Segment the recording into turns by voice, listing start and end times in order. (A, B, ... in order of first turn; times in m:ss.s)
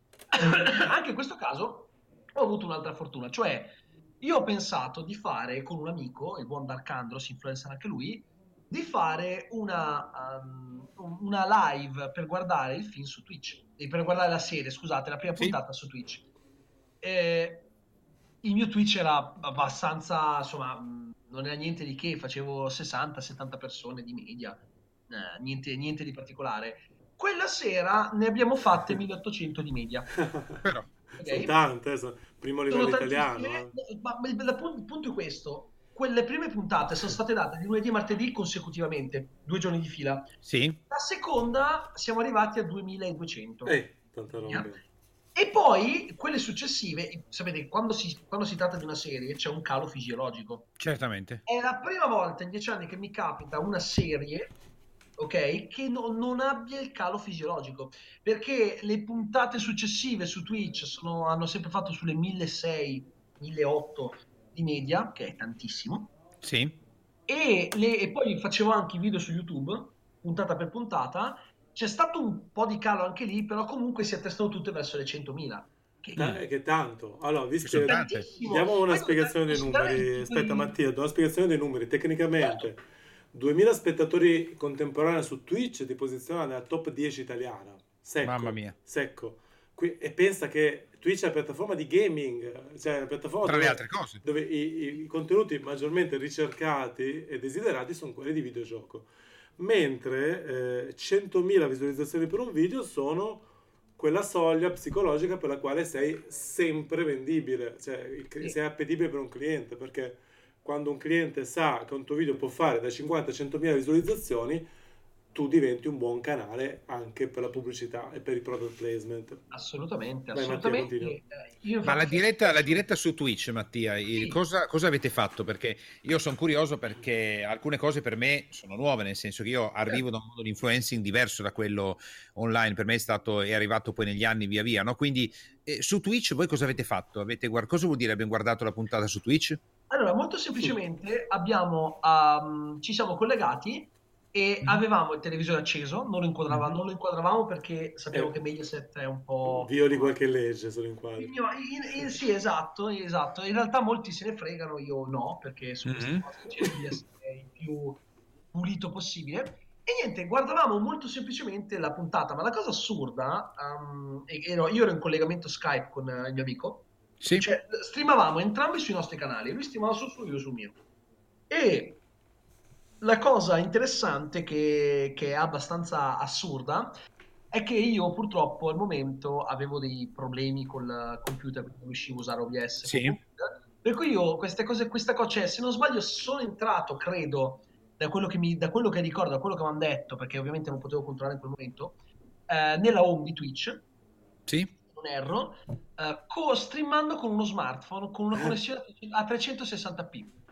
0:00.3-0:16.3 A
0:17.0-0:17.7 A
0:18.4-0:30.2 A
0:30.2-0:33.7 B
0:30.6-0:30.9 C
0:31.2-0:31.6 A
0:32.7-0:40.3 A
0:40.4-0:40.8 C
0:40.9-0:43.8 A
0:43.7-0:44.8 B
0:44.4-0:44.7 A
0:45.4-0:50.7 A
0:50.8-0:51.4 C
0:51.5-0:54.5 A
0:55.2-1:06.1 A
1:06.4-1:06.8 C
1:07.3-1:16.4 A
1:16.2-1:43.5 B
1:17.6-1:18.3 C
1:17.8-1:20.7 A
1:22.4-1:22.7 A
1:28.2-1:28.8 C
1:33.4-1:34.2 C
1:44.0-1:54.7 B
1:55.3-1:59.4 B
1:59.5-2:02.8 A
2:00.3-2:01.2 B
2:01.8-2:19.6 C
2:04.1-2:04.4 A
2:19.9-2:30.1 A
2:29.4-2:31.3 B
2:31.2-2:50.8 A
2:35.8-2:36.3 C
2:47.2-2:47.5 C
2:51.5-2:52.0 A
2:53.0-2:56.9 A
2:57.5-3:12.0 A
3:02.8-3:03.2 C
3:12.5-3:13.8 A
3:14.9-3:20.4 A